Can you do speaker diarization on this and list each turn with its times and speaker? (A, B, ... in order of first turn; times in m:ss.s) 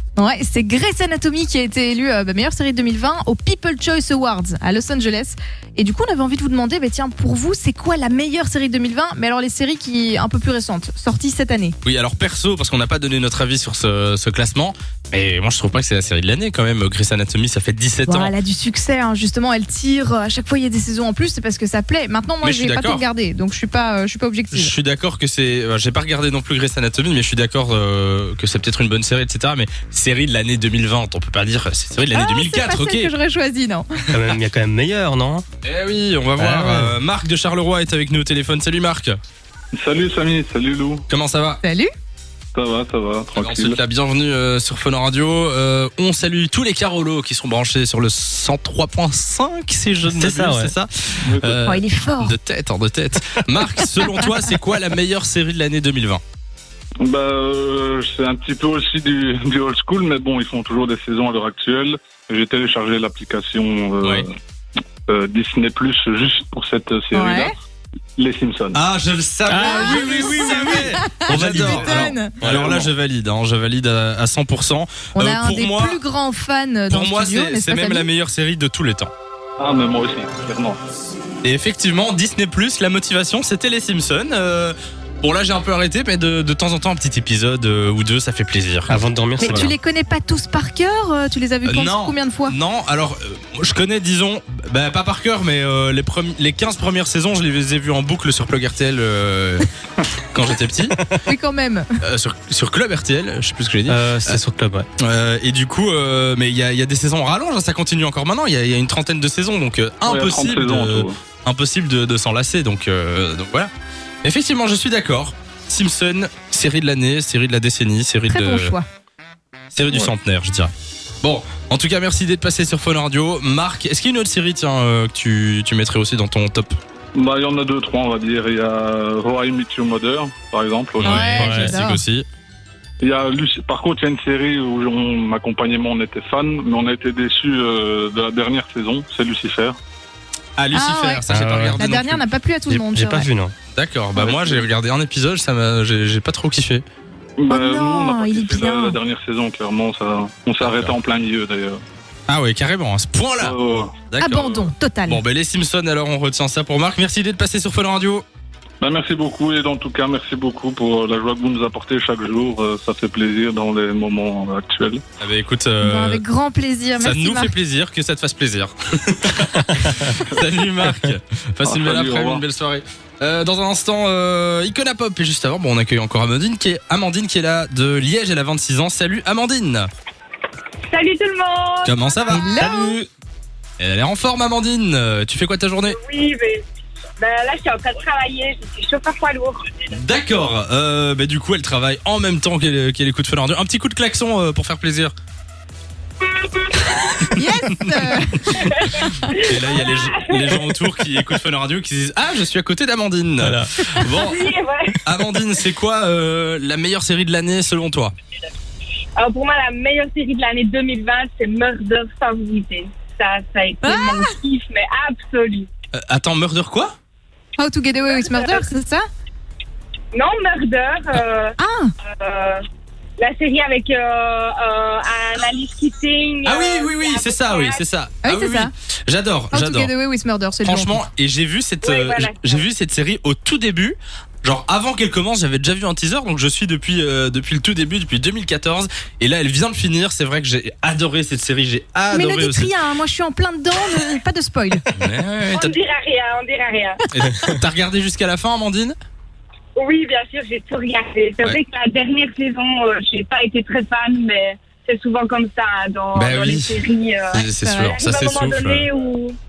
0:00.2-0:11.8 A
0:11.8-0:18.4 B
0:18.1-0:24.7 A
0:22.4-0:23.0 B
0:24.5-0:33.1 B
0:32.1-0:34.1 A
0:34.1-0:35.4 C
0:35.6-0:39.2 B
0:36.4-0:37.0 C
0:39.7-0:41.1 D
0:41.1-0:41.6 B
0:41.6-0:41.9 A
0:42.5-0:43.8 D
0:43.4-0:56.2 B
0:50.1-0:50.7 C
0:51.2-0:51.6 D
0:51.6-0:52.4 A
0:57.0-1:04.3 D
1:05.1-1:07.5 D
1:07.1-1:07.6 A
1:08.2-1:08.8 D
1:08.7-1:16.0 B
1:09.5-1:12.9 C
1:09.5-1:12.4 A
1:15.2-1:18.1 A
1:16.9-1:19.1 B
1:19.6-1:20.8 D
1:21.4-1:29.7 B
1:28.9-1:29.7 C
1:29.4-1:32.5 A
1:31.7-1:39.7 B
1:40.2-1:41.0 B
1:41.3-1:41.9 A
1:42.0-1:44.4 B
1:43.9-1:44.9 C
1:45.0-1:53.7 B
1:50.0-1:51.2 D
1:54.2-1:58.8 B
1:58.3-1:58.9 A
1:59.7-2:06.8 B
2:07.2-2:11.5 D
2:11.0-2:12.2 B
2:11.0-2:12.0 A
2:11.4-2:11.7 C
2:13.0-2:19.8 D
2:20.6-2:22.2 B
2:20.7-2:21.3 A
2:21.3-2:21.8 C
2:21.8-2:23.3 A
2:22.7-2:23.5 C
2:23.7-2:26.8 B
2:24.2-2:24.7 D
2:27.4-2:31.8 D
2:27.5-2:29.0 A
2:30.6-2:30.9 B
2:32.3-2:33.6 B
2:33.4-2:34.0 D
2:34.1-2:38.2 B
2:34.2-2:35.2 A
2:38.8-2:45.0 D
2:45.2-2:46.2 B
2:45.8-2:47.5 A
2:47.0-2:59.9 B
2:51.6-2:52.4 D
3:00.9-3:02.5 E
3:01.8-3:02.9 B
3:02.3-3:03.0 A
3:03.8-3:06.0 B
3:05.9-3:06.6 E
3:07.2-3:09.9 E
3:09.9-3:15.1 B
3:17.4-3:19.3 A
3:17.8-3:24.4 B
3:18.8-3:20.7 E
3:23.4-3:23.8 C
3:24.1-3:25.0 E
3:25.0-3:28.1 B
3:29.2-3:35.7 E
3:33.8-3:34.4 A
3:35.9-3:37.0 B
3:37.6-3:39.1 A
3:38.1-3:38.6 E
3:40.1-3:41.6 E
3:41.6-3:41.9 A
3:42.2-3:42.6 E
3:43.2-3:47.8 E
3:46.4-3:49.9 B
3:48.2-3:48.7 A
3:49.5-3:51.1 A
3:50.6-4:02.7 B
3:51.8-3:52.7 E
4:02.1-4:04.9 A
4:04.9-4:05.7 B
4:05.5-4:07.0 E
4:07.1-4:09.0 B
4:09.8-4:19.4 E
4:16.1-4:16.8 B
4:17.3-4:18.9 B